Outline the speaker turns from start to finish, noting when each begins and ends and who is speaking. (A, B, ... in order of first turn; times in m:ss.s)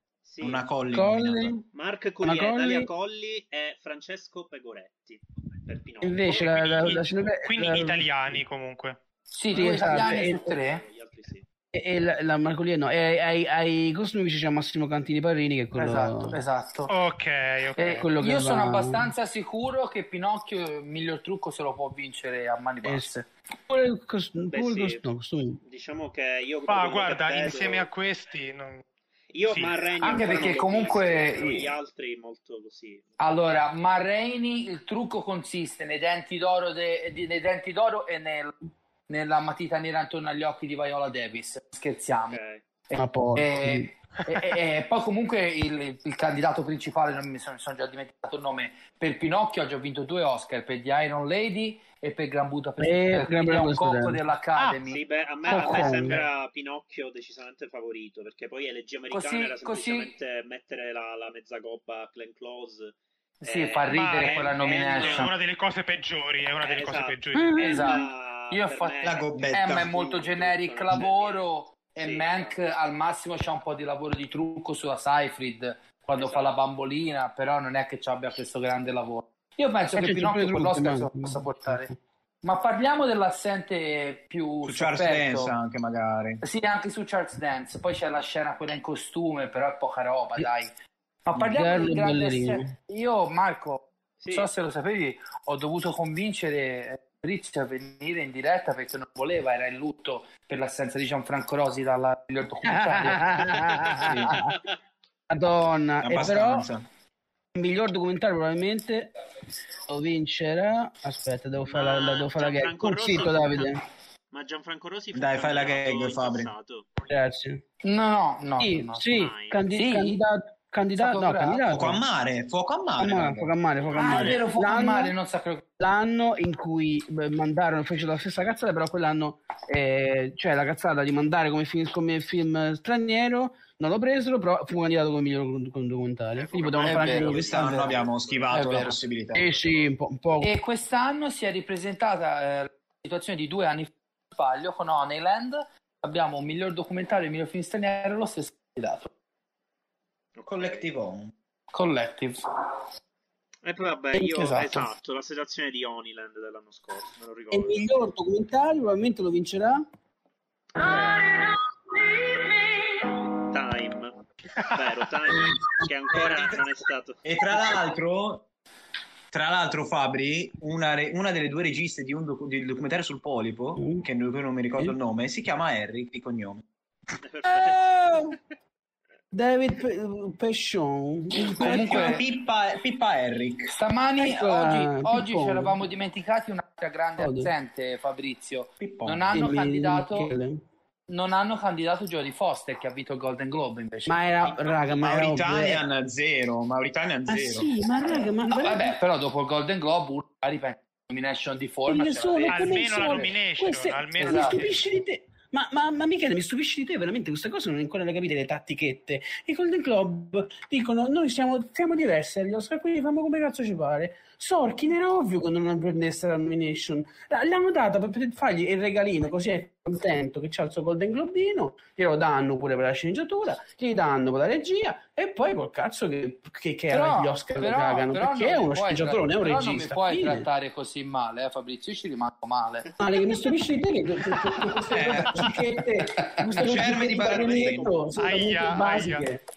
0:00.2-0:00.6 A
0:00.4-0:01.5 B
0:00.9-0:01.6 C
0:01.7-0:07.1 A
0:02.2-0:02.9 C
0:06.0-0:08.4 C
0:06.4-0:09.0 D
0:09.3-0:10.8 E
0:09.5-0:10.4 C
0:09.5-0:11.4 A
0:11.7-0:16.4 C
0:15.7-0:16.9 E
0:16.9-0:18.0 D
0:17.8-0:23.2 E
0:17.8-0:19.1 C
0:22.8-0:25.6 C
0:24.5-0:25.1 A
0:25.6-0:27.9 A
0:26.7-0:28.8 D
0:29.3-0:33.5 A
0:29.5-0:29.8 D
0:30.0-0:31.7 E
0:33.2-0:38.6 E
0:39.1-0:56.2 E
0:42.3-0:42.6 A
0:42.9-0:44.5 C
0:52.8-0:54.2 C
0:54.8-1:05.3 A
0:55.5-0:56.2 C
0:59.1-1:00.1 E
1:03.4-1:05.3 E
1:03.9-1:07.8 D
1:06.6-1:11.4 A
1:07.3-1:07.9 C
1:07.6-1:25.5 E
1:09.0-1:09.9 B
1:12.0-1:12.6 A
1:16.2-1:16.6 A
1:19.9-1:21.9 C
1:24.6-1:26.4 B
1:26.4-1:30.7 E
1:31.2-1:44.4 E
1:31.5-1:32.7 C
1:34.2-1:34.5 A
1:42.6-1:44.6 C
1:44.0-1:44.6 A
1:45.3-1:46.7 C
1:46.0-1:46.8 B
1:47.5-1:49.1 C
1:49.9-1:53.8 C
1:51.7-1:53.8 A
1:54.3-1:56.9 A
1:55.1-1:56.5 B
1:57.1-1:57.6 C
1:57.8-2:00.2 E
1:58.6-2:02.0 C
1:59.1-1:59.6 A
2:01.0-2:01.9 E
2:01.7-2:03.5 B
2:03.0-2:05.1 C
2:03.9-2:05.6 E
2:04.0-2:04.4 A
2:05.8-2:17.8 C
2:16.3-2:19.9 A
2:16.8-2:19.5 B
2:16.8-2:17.9 E
2:18.5-2:19.0 E
2:19.3-2:20.5 C
2:20.4-2:29.1 E
2:30.4-2:30.9 A
2:30.4-2:31.3 B
2:31.7-2:32.4 E
2:33.6-2:37.9 A
2:34.1-2:34.9 E
2:37.5-2:39.8 C
2:40.8-2:41.3 A
2:40.8-2:42.5 C
2:43.5-2:47.2 A
2:46.1-2:46.6 B
2:47.2-2:48.5 B
2:49.3-2:56.6 B
2:53.8-2:54.0 C
2:57.2-2:58.4 A
2:57.5-2:58.4 C
2:59.3-3:02.1 C
3:01.4-3:03.7 B
3:01.6-3:02.2 E
3:03.7-3:10.3 E
3:04.2-3:05.8 C
3:07.2-3:07.5 C
3:08.8-3:09.3 B
3:09.3-3:10.6 C
3:11.1-3:14.5 E
3:14.1-3:15.8 C
3:15.0-3:18.3 B
3:17.3-3:19.0 C
3:18.5-3:23.2 E
3:21.9-3:50.4 C
3:22.5-3:24.8 D
3:24.2-3:24.7 E
3:46.9-3:52.9 E
3:53.0-3:59.4 C
3:54.9-3:55.5 B
3:56.1-3:56.9 E
3:56.5-3:58.0 B
3:58.1-3:59.3 D